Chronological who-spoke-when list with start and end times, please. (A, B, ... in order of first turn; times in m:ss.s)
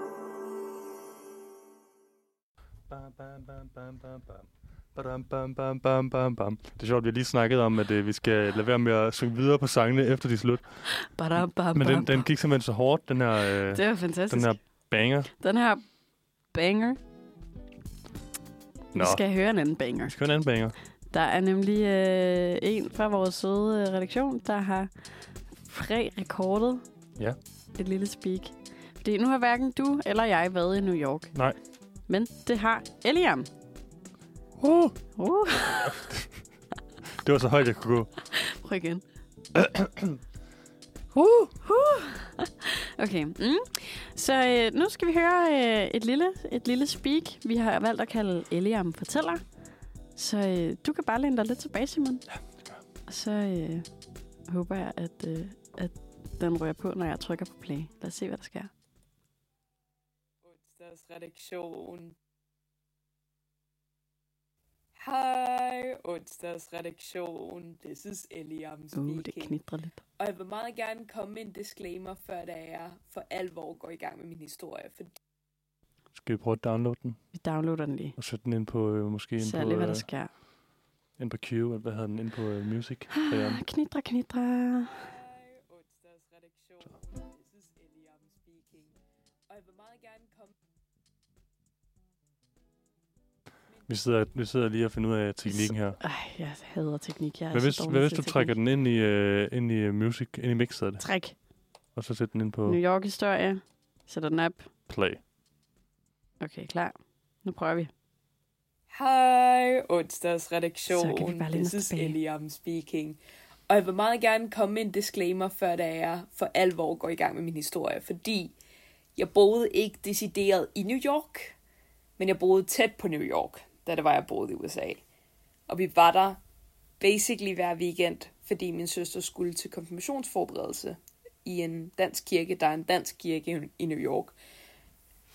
0:02.9-0:10.8 A
0:10.9-0:12.3 B
0:11.7-0:15.3 A
0:13.5-0:14.6 B
0:15.4-0:15.8 B
0:16.5-0:17.0 B
0:18.9-0:19.2 A
0:18.9-0:20.1 B
0:20.1-0:20.7 A
0:21.1-0:24.9 B
0:25.6-0:26.8 B
0:27.8-0:31.4 B
0:32.1-0:33.5 B
0:34.6-0:35.0 A
0:35.2-0:36.0 B
0:35.6-0:36.3 A
0:37.2-0:38.1 A
0:38.3-0:39.0 B
0:39.5-0:40.2 A
0:41.1-0:41.5 A
0:41.6-0:49.4 B
0:50.2-0:52.2 B
0:53.1-0:53.9 B
0:54.5-0:58.7 B
1:00.4-1:02.1 C
1:05.0-1:09.5 C
1:08.9-1:10.0 B
1:10.2-1:15.1 C
1:16.1-1:17.2 A
1:17.3-1:18.2 B
1:18.2-1:20.0 A
1:19.4-1:20.3 B
1:21.2-1:23.6 A
1:23.1-1:25.1 B
1:25.0-1:28.9 C
1:29.5-1:30.5 C
1:33.9-1:36.0 A
1:35.5-1:38.6 B
1:37.5-1:41.0 A
1:41.0-1:41.3 B
1:41.9-1:42.8 A
1:42.6-1:44.6 B
1:44.9-1:45.2 A
1:46.4-1:47.9 B
1:48.9-1:58.5 C
1:50.9-1:52.2 B
1:59.2-2:01.5 C
2:02.2-2:05.0 C
2:05.7-2:06.4 C
2:07.0-2:14.4 C